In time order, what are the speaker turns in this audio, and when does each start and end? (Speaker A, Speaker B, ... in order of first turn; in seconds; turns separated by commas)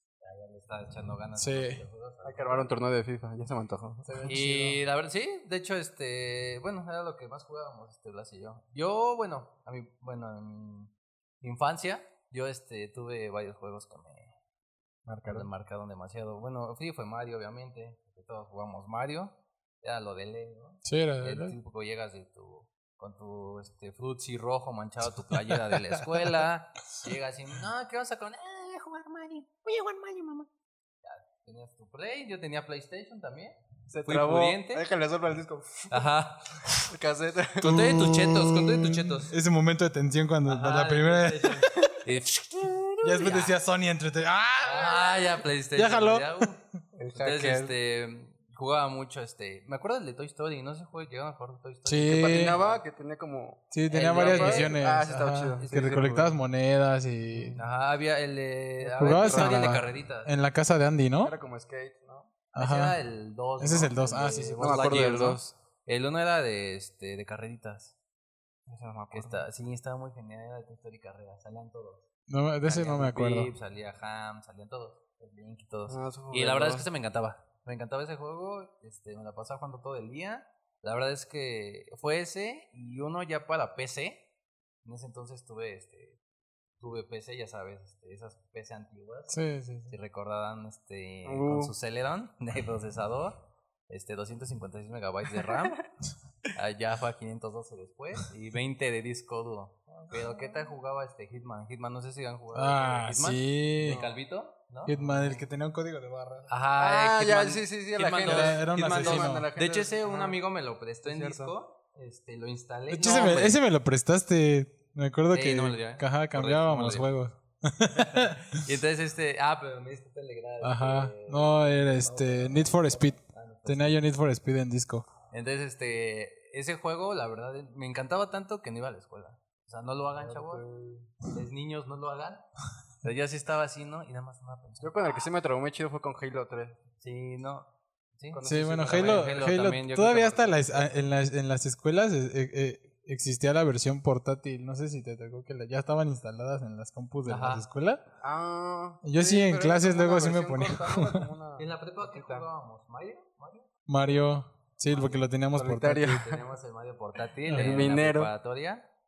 Speaker A: 0.2-2.7, Speaker B: 1.4-1.8, Speaker C: 2.2-4.3, Speaker B: 4.1-4.8, Speaker A: 4.2-14.3, Speaker C: 15.1-15.5, Speaker A: 15.3-30.5, Speaker B: 20.8-21.6, Speaker A: 31.0-34.9, Speaker C: 33.9-36.0, Speaker A: 35.9-36.6, Speaker C: 36.9-37.8, Speaker A: 37.6-39.3, Speaker B: 37.6-41.7, Speaker A: 40.5-43.6, Speaker B: 43.0-46.5, Speaker A: 44.6-46.6, Speaker C: 47.0-47.7, Speaker A: 47.2-52.8, Speaker B: 51.9-52.6, Speaker C: 52.1-55.7, Speaker B: 53.7-57.6, Speaker A: 53.9-54.8, Speaker A: 55.6-56.4, Speaker C: 57.3-57.6, Speaker A: 57.6-60.3, Speaker C: 58.8-59.8, Speaker B: 59.0-61.3, Speaker C: 61.2-62.3, Speaker B: 62.5-63.0, Speaker A: 62.6-68.0, Speaker B: 63.6-65.3, Speaker C: 64.6-65.5, Speaker C: 68.7-69.5, Speaker A: 69.1-72.1, Speaker B: 72.3-73.5, Speaker A: 72.7-84.2, Speaker C: 75.9-76.9, Speaker A: 84.8-86.2, Speaker A: 86.8-95.8, Speaker B: 89.3-89.9, Speaker C: 91.2-91.7, Speaker A: 96.5-105.5, Speaker B: 102.5-104.2, Speaker B: 104.9-106.5, Speaker A: 106.5-113.6, Speaker C: 106.8-110.4, Speaker B: 108.2-109.5, Speaker C: 111.0-111.5, Speaker B: 112.9-118.6, Speaker A: 115.3-117.1, Speaker A: 118.0-124.1, Speaker B: 120.6-125.1, Speaker A: 125.3-130.6, Speaker C: 130.2-131.1, Speaker A: 131.3-132.4, Speaker A: 133.0-134.9, Speaker C: 134.8-136.8, Speaker A: 137.0-140.9, Speaker C: 138.3-139.3, Speaker B: 138.4-148.0, Speaker A: 147.2-147.7, Speaker C: 148.2-152.5, Speaker B: 149.0-151.3, Speaker A: 151.6-155.3, Speaker B: 153.9-156.2, Speaker C: 155.5-156.4, Speaker A: 156.0-158.8, Speaker B: 157.5-157.8, Speaker C: 157.5-158.3